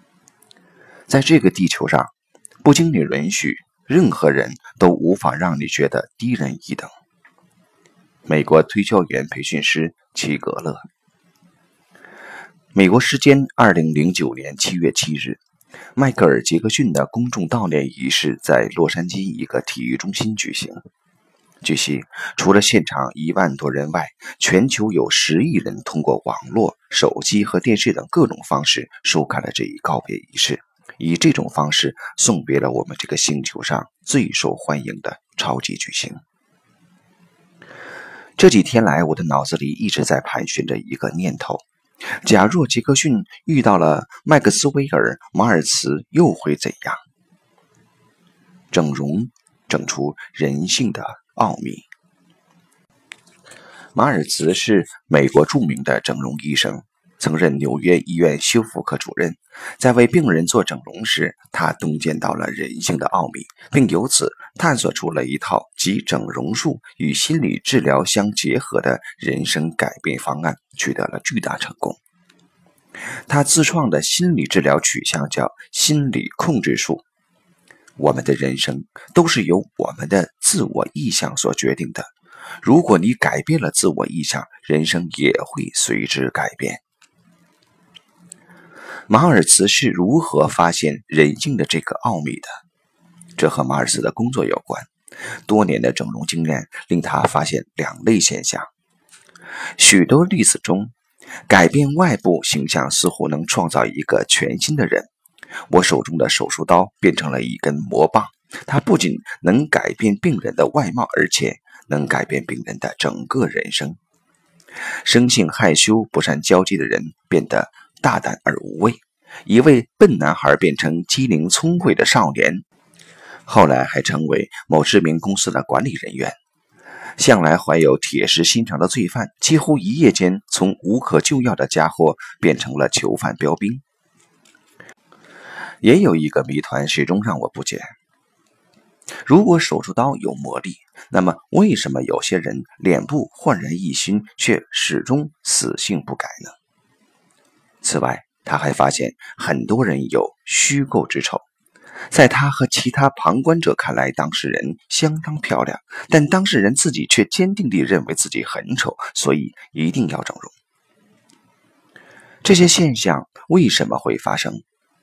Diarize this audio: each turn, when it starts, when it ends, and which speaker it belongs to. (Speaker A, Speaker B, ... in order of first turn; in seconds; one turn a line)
Speaker A: 1.1-2.1
Speaker A: 2.6-6.9
Speaker A: 8.2-10.8
Speaker A: 12.7-15.4
Speaker A: 15.9-20.9
Speaker A: 21.6-36.2
Speaker A: 38.4-41.6
Speaker A: 42.2-47.0
Speaker A: 48.7-51.9
Speaker A: 53.9-72.0
Speaker A: 73.3-77.0
Speaker A: 78.0-86.8
Speaker A: 89.1-92.6
Speaker A: 93.4-94.9
Speaker A: 95.5-98.7
Speaker A: 99.8-100.9
Speaker A: 101.5-105.1
Speaker A: 105.7-114.0
Speaker A: 115.0-122.6
Speaker A: 123.5-126.3
Speaker A: 127.2-133.8
Speaker A: 135.8-137.9
Speaker A: 139.2-146.6
Speaker A: 147.8-151.4
Speaker A: 152.1-160.5
Speaker A: 162.4-164.6